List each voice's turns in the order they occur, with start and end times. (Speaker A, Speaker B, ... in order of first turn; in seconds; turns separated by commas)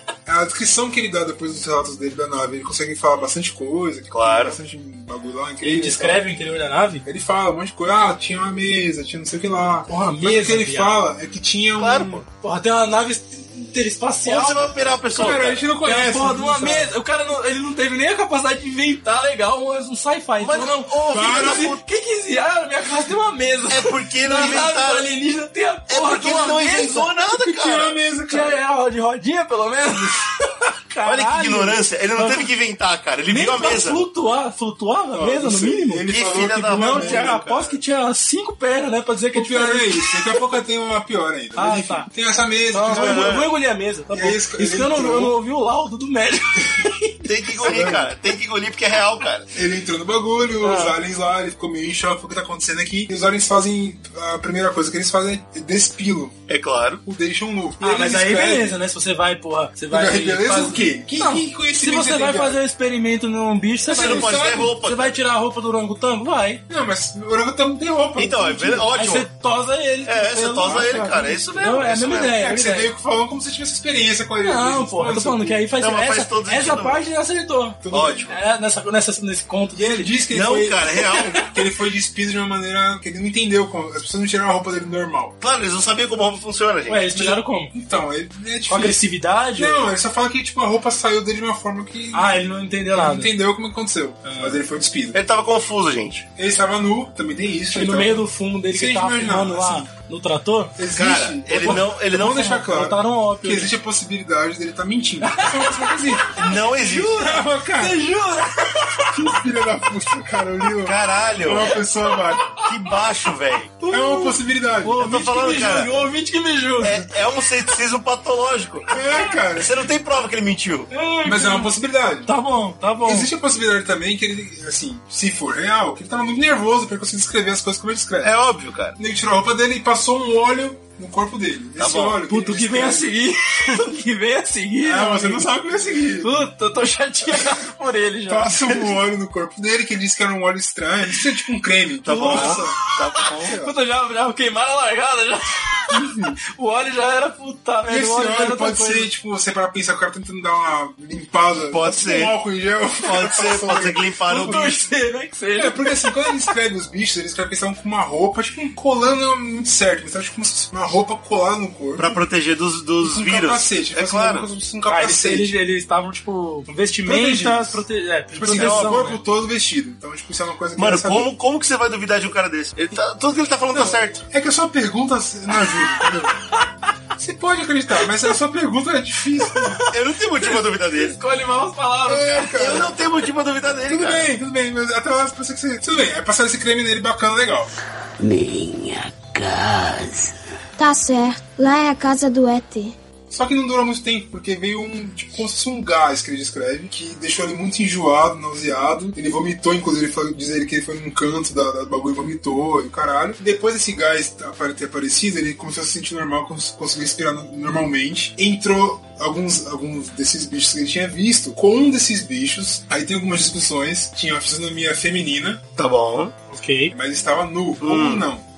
Speaker A: 0.3-6.2, Speaker B: 4.1-4.6, Speaker C: 5.6-7.0, Speaker A: 7.0-12.2, Speaker C: 9.9-10.9, Speaker B: 11.8-12.2, Speaker C: 12.4-27.2, Speaker B: 14.2-15.6, Speaker A: 15.1-16.9, Speaker B: 20.4-21.8, Speaker A: 21.1-21.7, Speaker B: 23.7-25.1, Speaker B: 25.9-28.0, Speaker A: 27.4-28.6, Speaker C: 28.3-32.5, Speaker B: 31.0-34.0, Speaker C: 33.3-36.1, Speaker A: 35.1-37.4, Speaker B: 36.1-37.8, Speaker C: 36.6-40.4, Speaker A: 39.3-43.5, Speaker C: 41.6-42.1, Speaker C: 42.7-47.9, Speaker B: 42.9-43.5, Speaker A: 44.1-45.4, Speaker A: 46.6-46.9, Speaker B: 47.2-49.5, Speaker A: 47.6-48.1, Speaker A: 49.5-56.4, Speaker C: 50.6-51.0, Speaker B: 56.5-57.0, Speaker A: 57.1-58.8, Speaker C: 57.8-66.6, Speaker A: 59.9-62.6, Speaker A: 63.9-64.7, Speaker B: 63.9-65.2, Speaker A: 66.7-68.9, Speaker B: 68.2-69.3, Speaker C: 69.0-72.9, Speaker B: 70.1-72.4, Speaker A: 70.7-71.0, Speaker A: 72.2-75.6, Speaker C: 74.4-80.2, Speaker B: 75.8-77.0, Speaker A: 77.8-78.3, Speaker B: 77.9-78.3, Speaker A: 79.8-85.4, Speaker B: 80.3-81.5, Speaker B: 85.4-87.1, Speaker C: 86.9-87.7, Speaker A: 87.1-89.0, Speaker C: 88.7-89.9, Speaker A: 89.5-95.2, Speaker C: 92.1-93.3, Speaker C: 94.2-94.6, Speaker B: 95.1-96.2, Speaker A: 96.4-99.9, Speaker C: 97.7-100.8, Speaker A: 100.8-108.1, Speaker B: 101.0-102.5, Speaker C: 102.2-103.7, Speaker C: 105.2-109.2, Speaker B: 106.4-107.3, Speaker A: 109.1-112.5, Speaker B: 110.8-111.8, Speaker B: 112.6-113.7, Speaker C: 113.8-117.1, Speaker A: 113.9-115.1, Speaker B: 115.0-116.1, Speaker B: 116.8-119.0, Speaker A: 118.9-119.8, Speaker B: 119.6-120.9, Speaker C: 120.9-121.7, Speaker A: 121.2-122.3, Speaker C: 122.3-123.3, Speaker A: 123.0-128.3, Speaker B: 128.2-129.0, Speaker A: 129.0-133.1, Speaker B: 131.8-132.2, Speaker C: 132.3-135.6, Speaker A: 134.8-136.3, Speaker C: 136.2-138.7, Speaker A: 138.3-143.8, Speaker B: 142.1-143.6, Speaker C: 142.1-149.1, Speaker A: 145.9-146.4, Speaker A: 147.9-154.8, Speaker B: 151.7-152.4, Speaker B: 153.0-154.8, Speaker C: 154.3-156.3, Speaker A: 155.6-162.2, Speaker B: 162.0-164.5, Speaker A: 163.0-165.5, Speaker C: 164.9-169.2, Speaker A: 167.1-171.3, Speaker B: 168.5-169.0, Speaker B: 170.8-174.2, Speaker A: 174.3-176.4, Speaker C: 175.7-176.6, Speaker A: 177.2-179.8, Speaker C: 179.4-179.9, Speaker B: 179.9-181.2, Speaker C: 181.0-182.9, Speaker A: 182.1-183.0, Speaker B: 182.6-184.3, Speaker A: 183.9-187.7, Speaker D: 188.3-190.2, Speaker E: 190.8-192.9, Speaker A: 193.3-215.6, Speaker B: 215.8-216.3, Speaker C: 216.5-216.9, Speaker A: 216.9-218.4, Speaker B: 217.8-218.3